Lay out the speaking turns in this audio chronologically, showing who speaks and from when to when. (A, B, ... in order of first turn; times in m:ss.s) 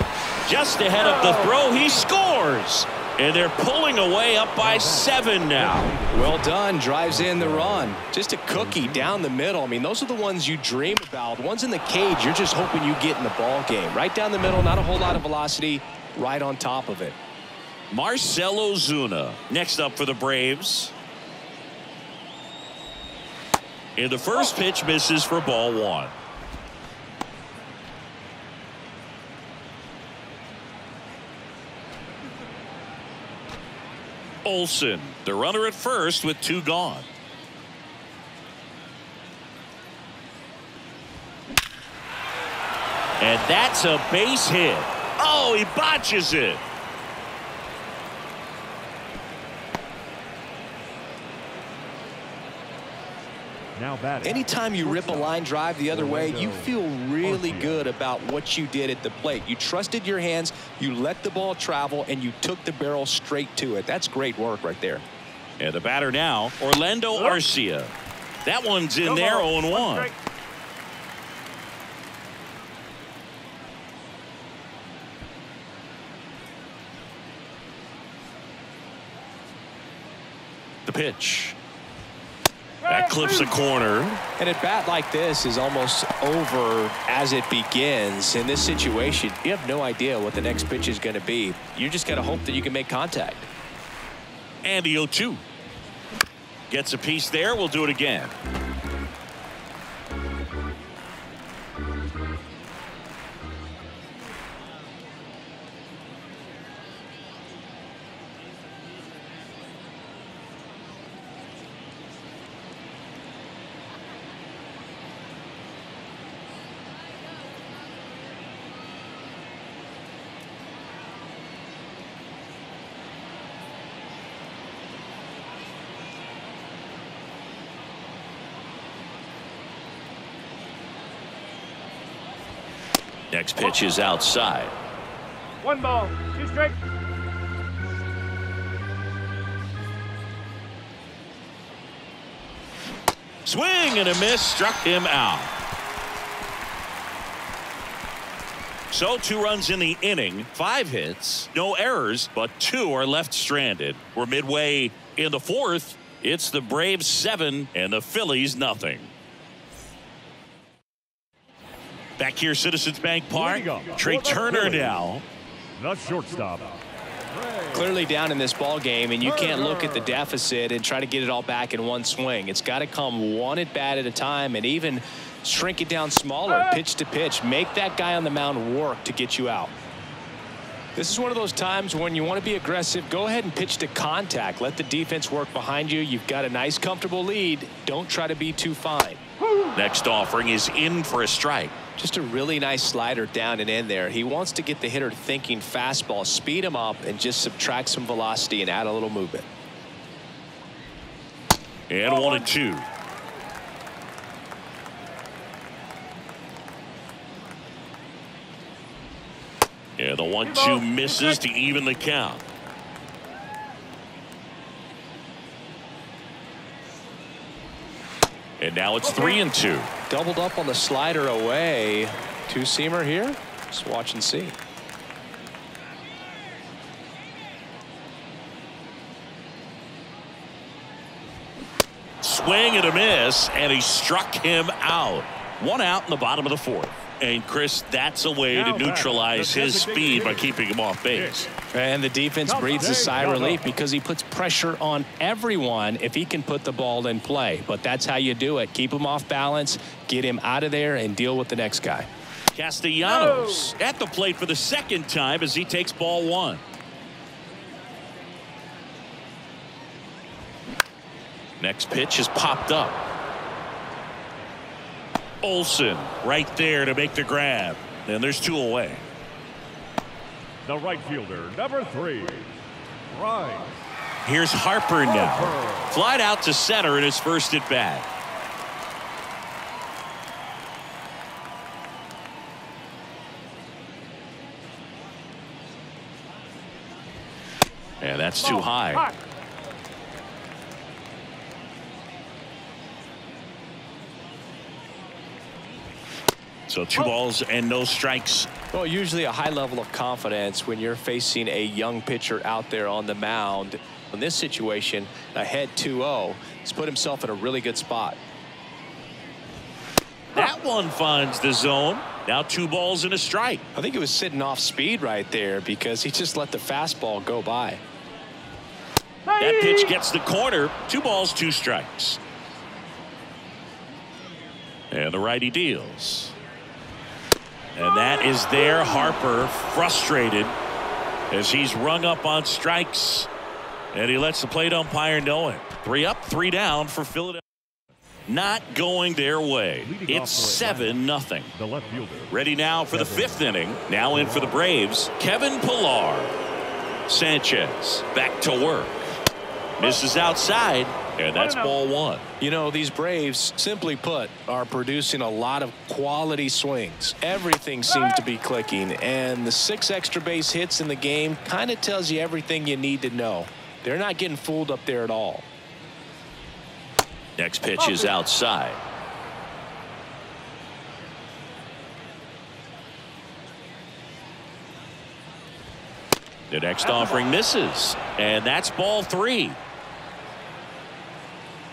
0:00.4-0:05.9 A
0:01.0-0:02.0 B
0:04.6-0:08.0 C
0:06.1-0:17.2 D
0:08.5-0:09.3 C
0:17.9-0:20.9 A
0:24.0-0:26.1 A
0:34.4-0:37.1 A
0:43.2-0:46.6 A
0:53.8-0:57.9 C
0:54.2-1:05.0 D
1:05.6-1:07.9 A
1:07.1-1:07.4 B
1:08.4-1:10.1 A
1:09.0-1:10.1 B
1:20.8-1:21.6 A
1:22.8-1:23.6 B
1:22.9-1:24.2 A
1:24.4-1:33.5 D
1:34.6-1:35.4 A
1:36.7-1:38.3 A
2:13.3-2:14.7 A
2:15.6-2:16.8 B
2:23.4-2:25.5 A
2:28.9-2:39.1 A
2:42.2-2:45.2 A
2:43.3-2:45.1 C
2:45.8-2:48.0 C
2:47.7-2:59.7 D
2:49.2-2:50.3 C
2:56.5-2:56.8 B
3:01.0-3:09.2 D
3:09.7-3:11.7 A
3:12.0-3:19.5 D
3:21.9-3:22.8 A
3:22.0-3:22.5 B
3:30.0-3:32.4 A
3:30.4-3:31.4 B
3:38.6-3:39.9 A
3:39.0-3:39.4 B
3:40.1-3:44.5 D
3:52.2-4:01.5 A
3:58.5-4:00.5 C
4:01.1-4:01.4 C
4:01.7-4:12.1 D
4:02.4-4:03.7 C
4:12.5-4:16.6 A
4:13.0-4:13.8 B
4:21.6-4:23.0 A
4:25.4-4:29.1 A
4:30.6-4:33.9 C
4:34.2-4:38.1 A
4:35.0-4:36.0 C
4:48.0-4:49.1 A
4:48.4-4:49.2 B
4:56.7-4:58.5 A
4:58.7-5:08.2 D
5:10.4-5:13.6 A
5:13.8-5:17.8 D
5:19.2-5:19.9 B
5:19.4-5:22.2 A
5:24.9-5:26.4 A
5:27.8-5:30.5 A
5:31.3-5:33.3 A
5:33.9-5:37.4 A
5:38.3-5:41.5 A
5:39.8-5:41.0 C
5:41.5-5:42.4 C
5:42.3-5:46.3 A
5:42.9-5:43.5 C
5:44.1-5:44.6 C
5:47.1-5:49.1 A
5:49.8-5:52.2 A
5:51.4-5:51.8 B
5:52.4-6:05.5 D
5:57.9-5:58.2 B
6:07.4-6:08.8 A
6:07.8-6:08.1 B
6:16.5-6:19.6 A
6:16.8-6:17.2 B